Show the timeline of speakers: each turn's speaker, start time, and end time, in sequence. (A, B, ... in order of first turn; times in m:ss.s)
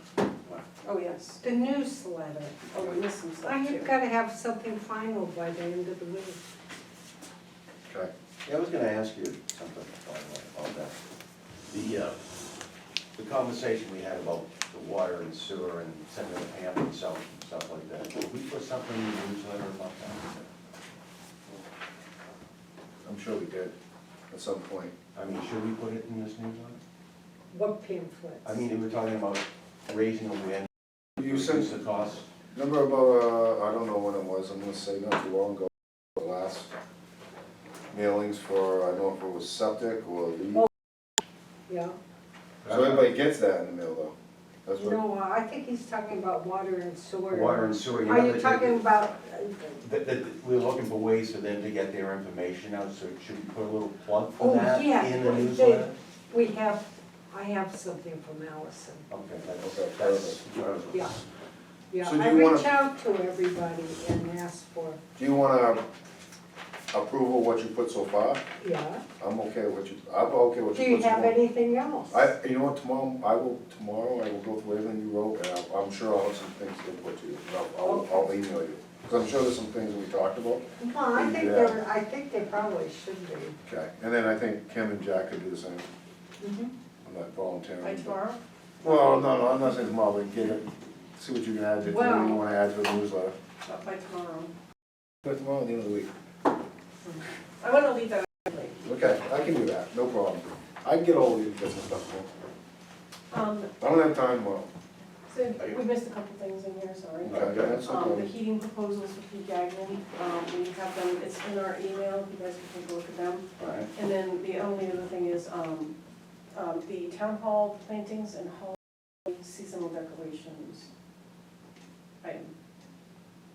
0:00.8-0:01.4 A
0:01.4-0:02.6 B
0:02.7-0:03.9 A
0:03.4-0:06.4 B
0:08.4-0:11.0 C
0:11.7-0:12.2 C
0:13.2-0:20.4 C
0:23.0-0:23.7 D
0:24.3-0:24.9 D
0:25.1-0:26.8 C
0:27.5-0:28.6 B
0:28.4-0:30.7 C
0:31.2-0:31.7 D
0:31.3-0:32.2 C
0:32.5-0:36.7 D
0:37.9-0:40.6 D
0:41.7-0:42.0 B
0:42.6-0:43.1 C
0:42.7-0:44.1 D
0:44.6-0:45.0 D
0:44.7-0:49.8 B
0:47.3-0:49.0 C
0:49.8-0:55.9 C
0:54.4-0:59.0 B
0:59.1-1:01.2 C
0:59.6-1:00.4 D
1:01.9-1:05.0 B
1:02.0-1:02.7 D
1:05.2-1:05.8 D
1:06.9-1:08.4 D
1:08.6-1:09.0 B
1:09.2-1:11.4 D
1:10.7-1:12.2 B
1:12.1-1:21.8 D
1:17.8-1:18.2 B
1:20.8-1:23.6 B
1:23.6-1:25.8 D
1:26.4-1:26.7 B
1:27.0-1:28.2 D
1:27.8-1:29.7 A
1:28.8-1:33.3 D
1:31.8-1:32.4 B
1:33.6-1:34.5 A
1:35.2-1:36.1 D
1:37.0-1:38.8 A
1:38.8-1:42.3 D
1:43.3-1:43.9 A
1:43.8-1:44.7 D
1:45.3-1:55.9 A
1:47.2-1:47.8 C
1:47.3-1:48.3 D
1:53.6-1:53.9 C
1:56.5-2:00.9 A
2:02.2-2:02.5 A